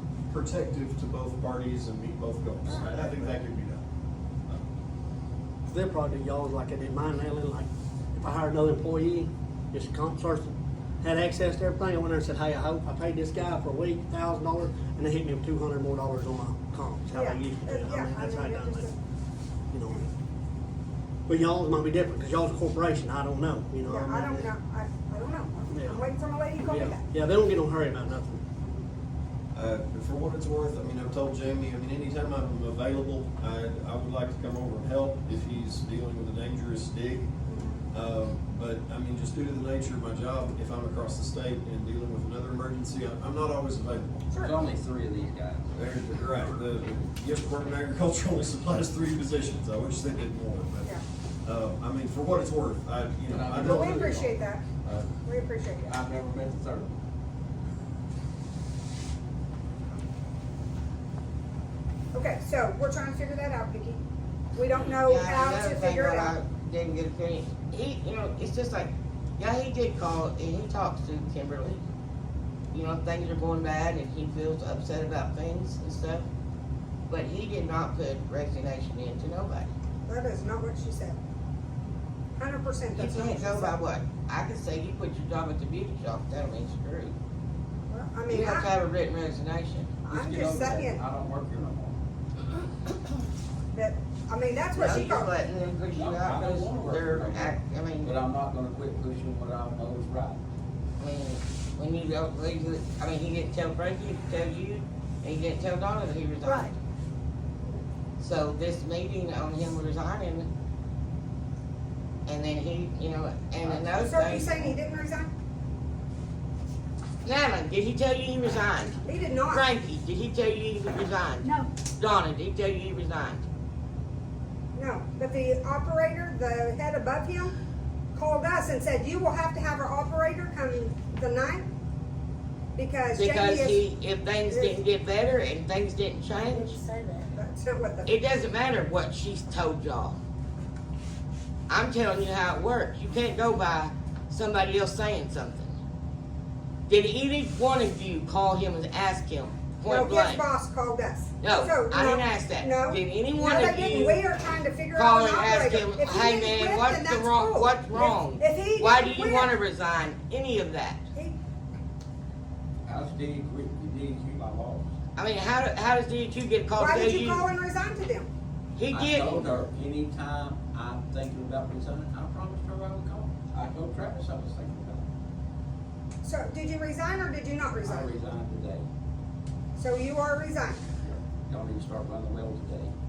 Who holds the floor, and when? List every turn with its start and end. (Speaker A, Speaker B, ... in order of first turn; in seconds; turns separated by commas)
Speaker A: 0.3-3.8, Speaker B: 2.6-3.3, Speaker C: 5.7-18.9, Speaker D: 17.1-19.0, Speaker C: 19.7-20.1, Speaker C: 21.3-24.5, Speaker D: 23.8-27.0, Speaker C: 25.7-26.0, Speaker C: 26.6-28.4, Speaker A: 29.5-37.3, Speaker D: 37.5-37.9, Speaker A: 37.9-44.3, Speaker B: 44.3-45.7, Speaker A: 45.7-54.2, Speaker B: 53.3-54.4, Speaker D: 53.6-54.6, Speaker D: 55.2-56.0, Speaker B: 55.8-56.9, Speaker D: 62.1-64.0, Speaker D: 64.5-66.3, Speaker E: 65.0-71.8, Speaker E: 72.7-76.3, Speaker E: 77.1-79.7, Speaker D: 80.0-81.2, Speaker D: 82.3-83.8, Speaker E: 82.9-87.2, Speaker D: 87.9-88.7, Speaker E: 88.3-90.0, Speaker D: 90.0-91.0, Speaker B: 90.1-92.0, Speaker D: 93.7-95.3, Speaker E: 94.8-98.1, Speaker B: 95.9-100.4, Speaker E: 101.0-106.8, Speaker E: 108.2-110.5, Speaker E: 112.2-114.8, Speaker D: 114.0-115.3, Speaker E: 117.2-119.0, Speaker D: 119.0-119.7, Speaker E: 119.5-123.4, Speaker D: 124.7-127.5, Speaker D: 128.1-131.7, Speaker D: 132.7-133.8, Speaker E: 133.1-136.8, Speaker D: 134.5-134.7, Speaker D: 137.3-138.1, Speaker E: 138.1-140.2, Speaker E: 141.7-145.8, Speaker E: 146.9-150.4, Speaker D: 149.8-159.5, Speaker E: 151.4-154.2, Speaker E: 154.9-161.0, Speaker B: 162.8-164.9, Speaker E: 165.2-167.5, Speaker D: 166.8-168.3, Speaker E: 168.8-169.6, Speaker B: 168.9-175.1, Speaker D: 176.2-178.1, Speaker B: 177.8-178.9, Speaker D: 179.7-180.8, Speaker B: 181.0-182.9